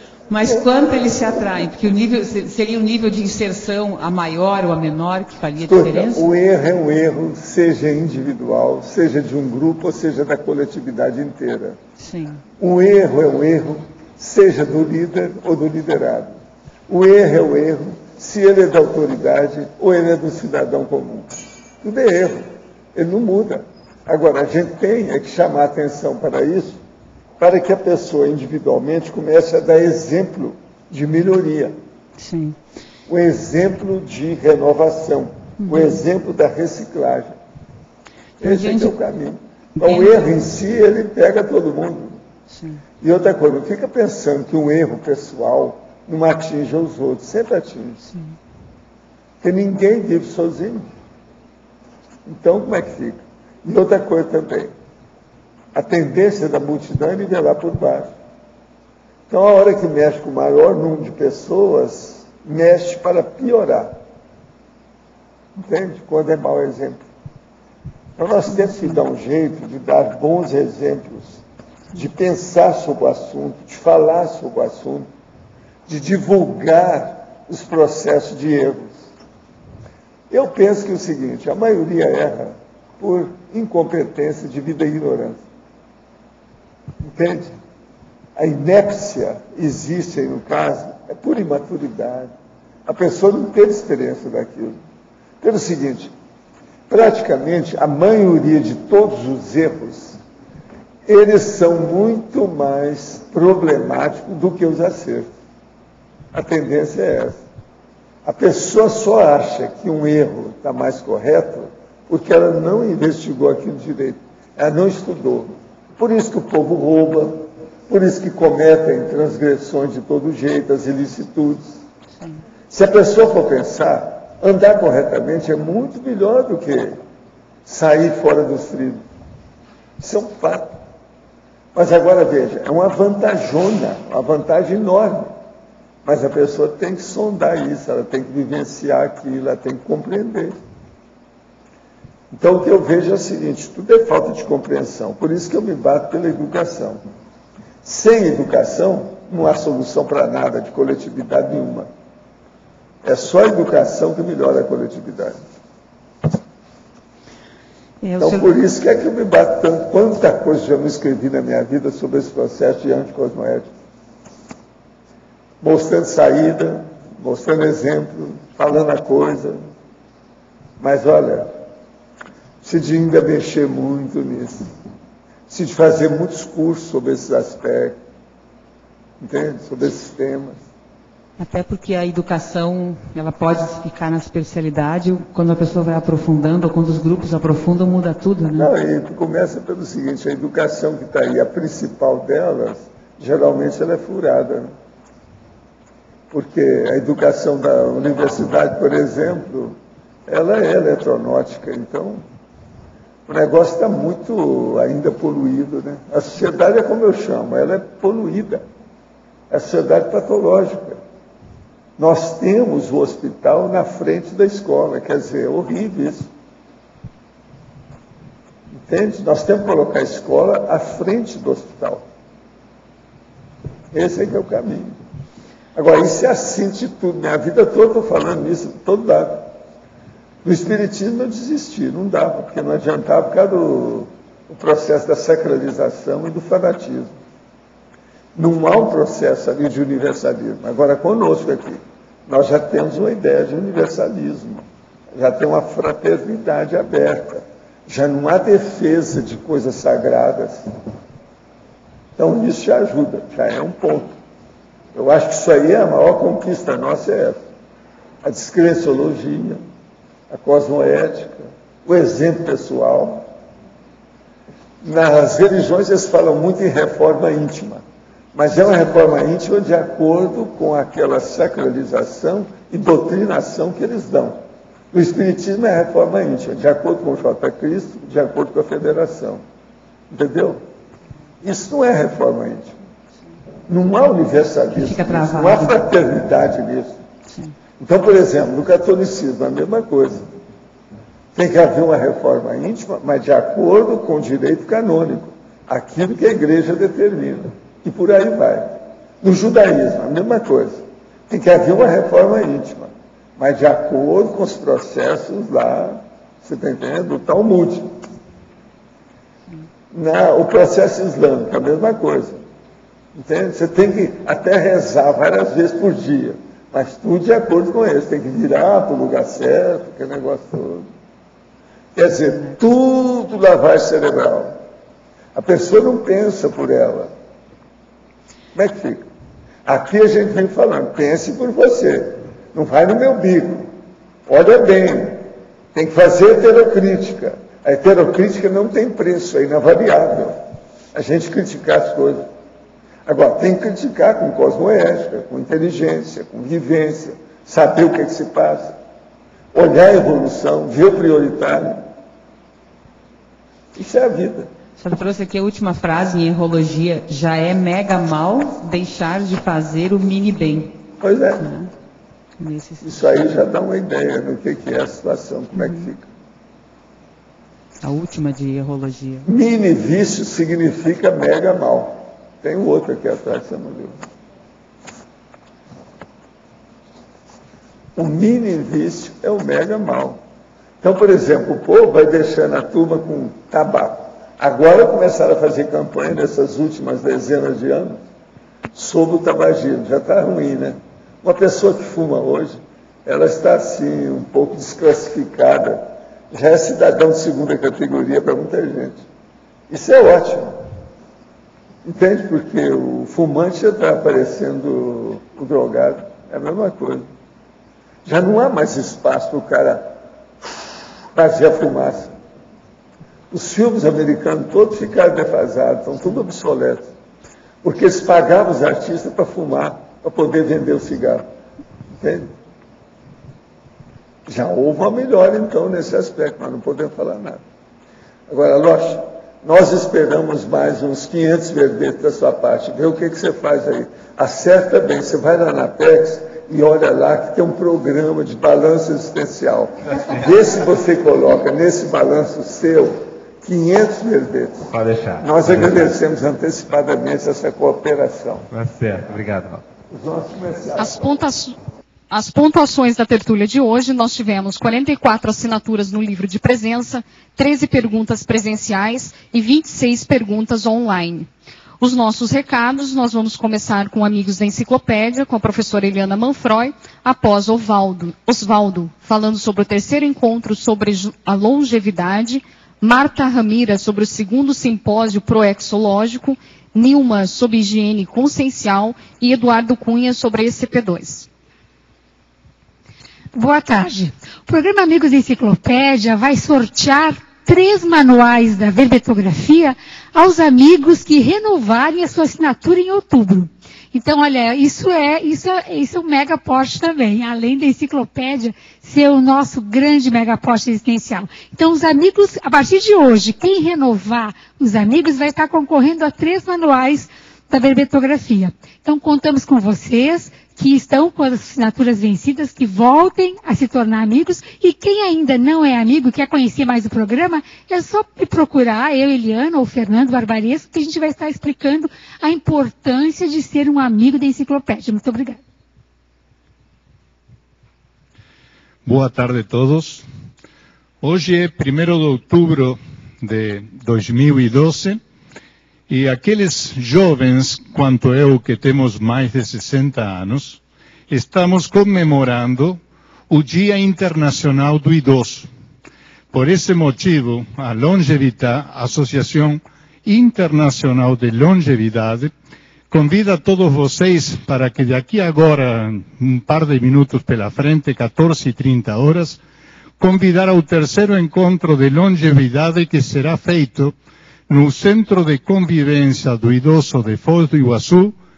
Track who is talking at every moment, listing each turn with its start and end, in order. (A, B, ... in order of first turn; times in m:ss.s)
0:00.3-0:06.2 A
0:05.7-0:11.8 B
0:12.0-0:12.4 A
0:12.6-0:26.8 B
0:27.4-0:31.8 B
0:32.2-0:32.6 A
0:33.1-0:37.4 B
0:35.6-0:36.0 A
0:38.4-0:39.0 A
0:38.4-0:42.2 B
0:39.8-0:40.2 A
0:42.5-0:42.8 A
0:43.0-0:48.0 B
0:49.4-0:50.9 B
0:52.3-0:54.7 B
0:55.7-0:58.1 B
0:59.3-1:04.0 B
1:05.6-1:07.0 B
1:08.2-1:11.4 B
1:12.0-1:15.1 B
1:15.9-1:19.0 B
1:20.3-1:25.4 B
1:27.0-1:27.6 B
1:28.4-1:32.3 B
1:32.9-1:34.8 B
1:35.4-1:36.1 B
1:36.9-1:40.2 B
1:41.1-1:45.3 B
1:46.3-1:47.4 B
1:48.2-2:01.8 B
2:02.7-2:07.0 B
2:07.7-2:09.0 B
2:10.0-2:10.7 B
2:11.7-2:15.3 B
2:16.0-2:20.5 B
2:22.3-2:27.0 B
2:27.8-2:31.9 B
2:33.0-2:35.4 B
2:38.0-2:38.6 A
2:38.2-2:43.7 B
2:45.6-2:49.6 B
2:50.8-2:51.5 B
2:52.6-2:54.7 B
2:55.5-2:58.0 B
2:59.2-3:00.6 B
3:01.4-3:08.7 A
3:08.6-3:14.7 B
3:16.3-3:22.2 B
3:23.3-3:28.6 B
3:29.5-3:31.0 B
3:32.0-3:36.3 B
3:38.8-3:42.1 B
3:43.9-3:45.0 B
3:45.8-3:49.5 B
3:50.4-3:57.2 B
3:58.4-4:10.6 B
4:12.2-4:14.2 B
4:14.9-4:17.4 B
4:18.2-4:19.6 B
4:20.3-4:23.3 B
4:24.8-4:39.4 B
4:40.1-4:40.6 B
4:41.4-4:42.7 B
4:43.7-4:47.0 B
4:44.7-4:45.8 A
4:47.3-4:47.5 A
4:47.8-4:50.3 B
4:51.4-5:07.9 B
5:09.9-5:12.4 B
5:13.2-5:20.9 B
5:22.0-5:24.6 B
5:25.3-5:27.1 B
5:28.5-5:29.1 B
5:29.6-5:33.7 B
5:34.3-5:40.4 B
5:40.9-5:42.3 B
5:43.1-5:48.8 B
5:49.5-5:51.9 B
5:53.8-5:54.5 B
5:54.8-6:00.8 A
6:01.0-6:01.5 B
6:01.4-6:01.7 A
6:02.4-6:03.1 A
6:02.8-6:06.1 B
6:05.6-6:05.9 A
6:07.8-6:09.3 A
6:09.3-6:14.0 B
6:18.0-6:20.2 B
6:20.8-6:28.0 B
6:28.7-6:39.0 B
6:39.7-6:40.6 B
6:41.8-6:47.1 B
6:48.0-6:50.0 B
6:51.1-6:52.1 B
6:53.3-6:56.9 B
6:57.6-7:01.3 B
7:02.0-7:02.3 B
7:04.3-7:07.4 B
7:08.3-7:24.7 B
7:24.7-7:25.9 C
7:25.2-7:28.5 B
7:28.5-7:29.6 C
7:29.9-7:31.1 B
7:30.8-7:31.6 D
7:32.1-7:41.3 D
7:41.8-8:01.3 D
8:03.3-8:45.4 E
8:48.9-8:50.0 F
8:51.0-8:55.0 F
8:55.9-9:05.5 F
9:06.3-9:12.3 F
9:12.9-9:19.4 F
9:20.0-9:24.0 F
9:24.5-9:28.2 F